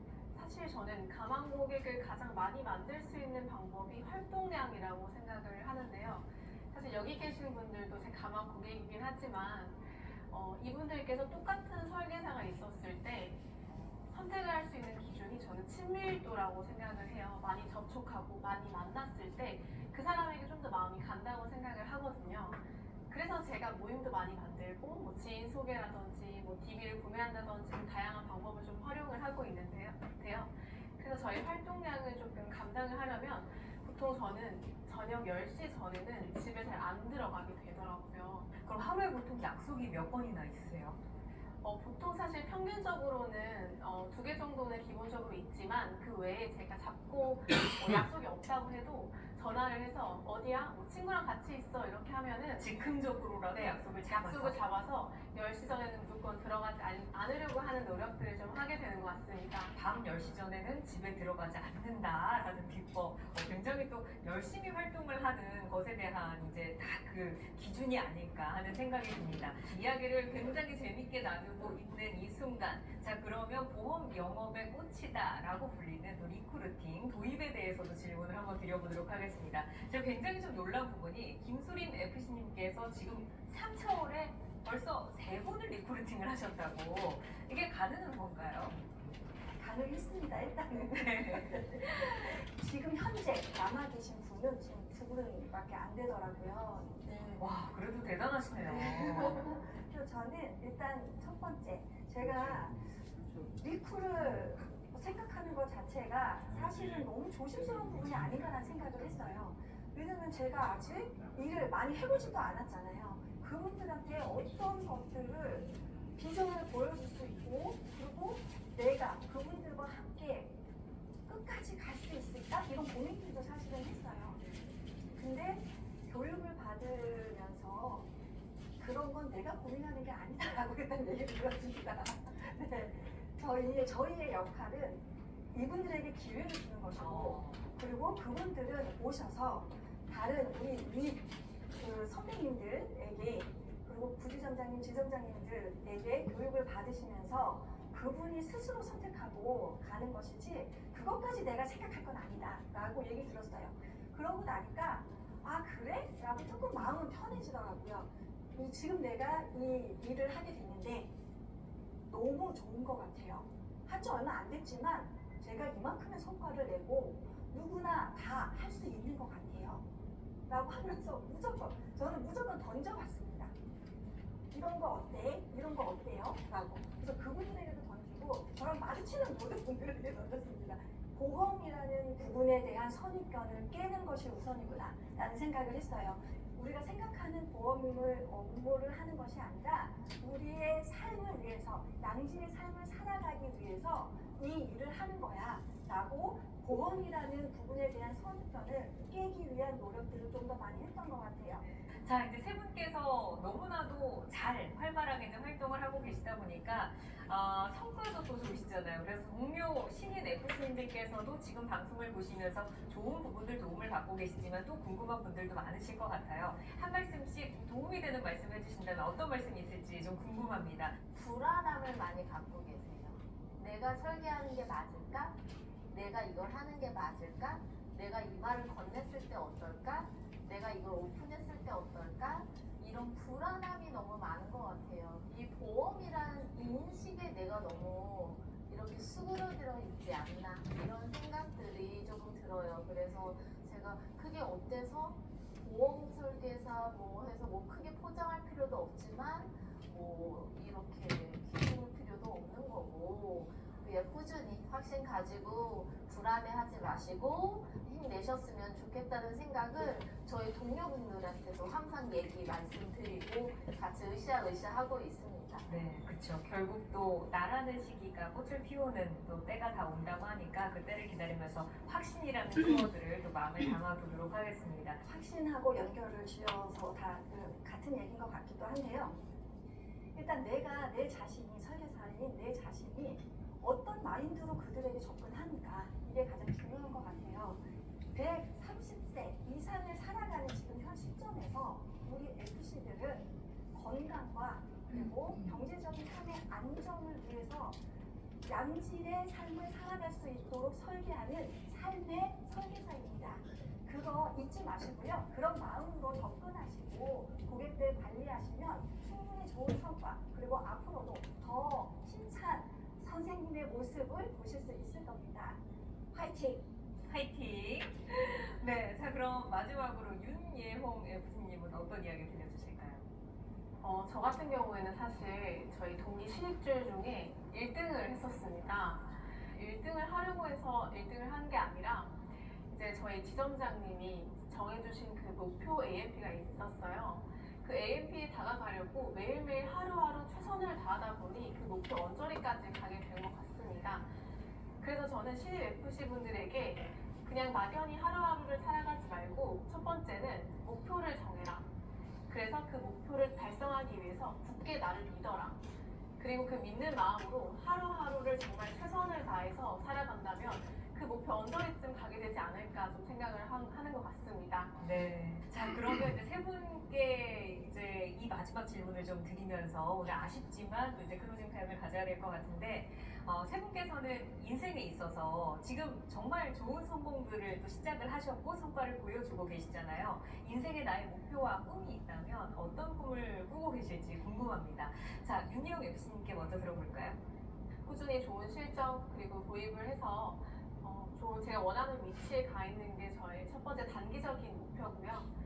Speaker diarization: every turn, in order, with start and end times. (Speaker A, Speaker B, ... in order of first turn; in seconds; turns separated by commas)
Speaker A: 0.3-13.4, Speaker B: 13.7-14.0, Speaker A: 14.1-38.5, Speaker B: 38.6-41.0, Speaker A: 41.6-52.8, Speaker B: 52.6-54.6, Speaker A: 53.5-59.7, Speaker B: 59.7-88.8, Speaker C: 89.5-97.4, Speaker B: 90.9-91.7, Speaker B: 97.4-99.5, Speaker C: 98.6-102.9, Speaker C: 103.6-120.5, Speaker C: 121.3-124.4, Speaker C: 125.1-128.1, Speaker C: 128.8-161.1, Speaker B: 136.9-137.7, Speaker C: 162.1-169.8, Speaker C: 170.5-173.5, Speaker C: 174.5-201.7, Speaker B: 202.0-221.0, Speaker D: 221.1-225.4, Speaker D: 225.9-265.7, Speaker B: 265.7-275.0, Speaker C: 275.0-279.2, Speaker C: 280.1-297.8, Speaker C: 298.4-315.6, Speaker C: 316.1-316.6, Speaker B: 317.1-323.0, Speaker A: 323.8-344.1, Speaker A: 344.8-351.7, Speaker A: 352.3-355.6, Speaker A: 356.2-364.7, Speaker B: 364.8-387.2, Speaker A: 387.8-395.3